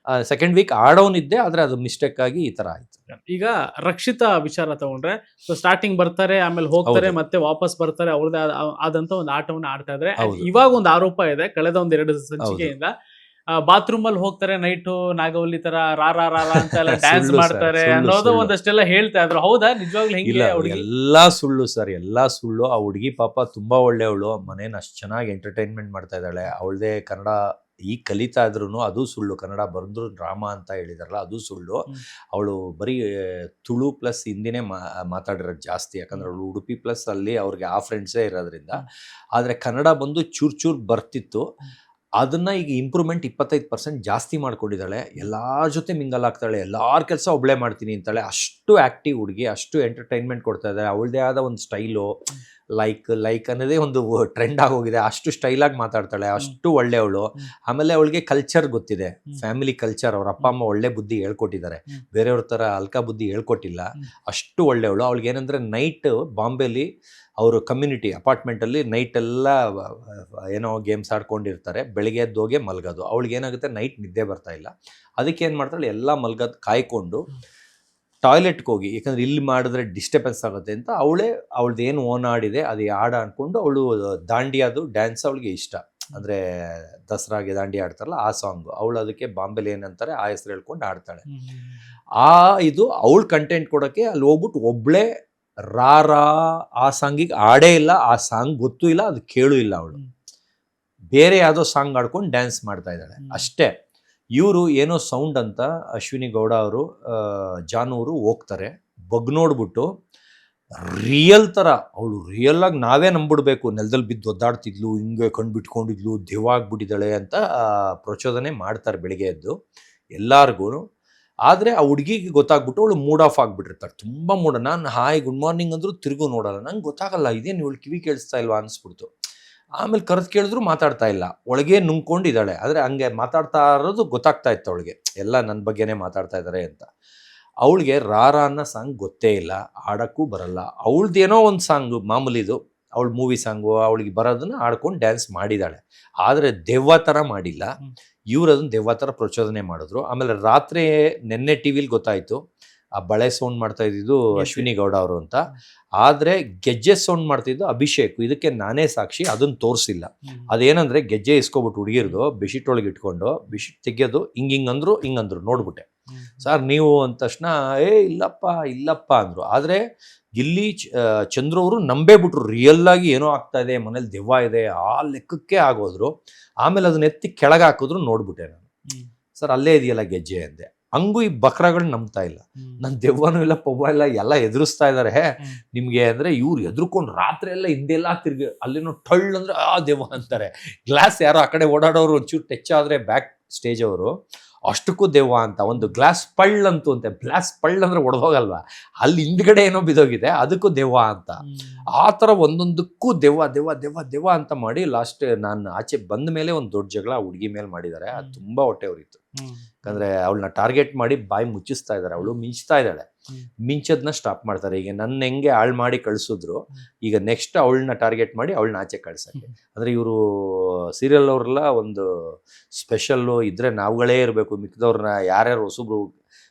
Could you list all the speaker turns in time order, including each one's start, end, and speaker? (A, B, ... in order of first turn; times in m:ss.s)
0:00.2-0:03.0 A
0:03.1-0:12.9 B
0:06.9-0:07.1 A
0:10.2-0:10.6 A
0:12.4-0:12.7 A
0:13.6-0:20.8 B
0:16.6-0:18.5 A
0:20.2-0:33.0 A
0:33.6-0:38.8 A
0:39.4-0:41.4 A
0:42.2-0:52.1 A
0:52.8-1:06.9 A
1:07.4-1:17.3 A
1:18.2-1:26.4 A
1:27.1-1:31.2 A
1:31.3-1:31.9 B
1:32.2-1:35.1 A
1:35.7-1:40.0 A
1:41.1-1:43.7 A
1:43.2-1:43.5 B
1:44.4-1:49.9 A
1:50.8-1:59.6 A
2:00.2-2:00.8 A
2:01.5-2:09.1 A
2:09.8-2:16.9 A
2:17.6-2:27.7 A
2:28.3-2:32.4 A
2:33.0-2:35.4 A
2:34.4-2:34.7 B
2:36.0-2:45.9 A
2:46.1-2:46.5 B
2:46.4-2:49.8 A
2:50.4-2:56.1 A
2:56.6-2:58.6 A
2:59.4-3:14.1 A
3:14.7-3:21.4 A
3:21.4-3:21.9 B
3:22.0-3:29.2 A
3:29.4-3:30.0 B
3:29.8-3:33.1 A
3:33.7-3:46.1 A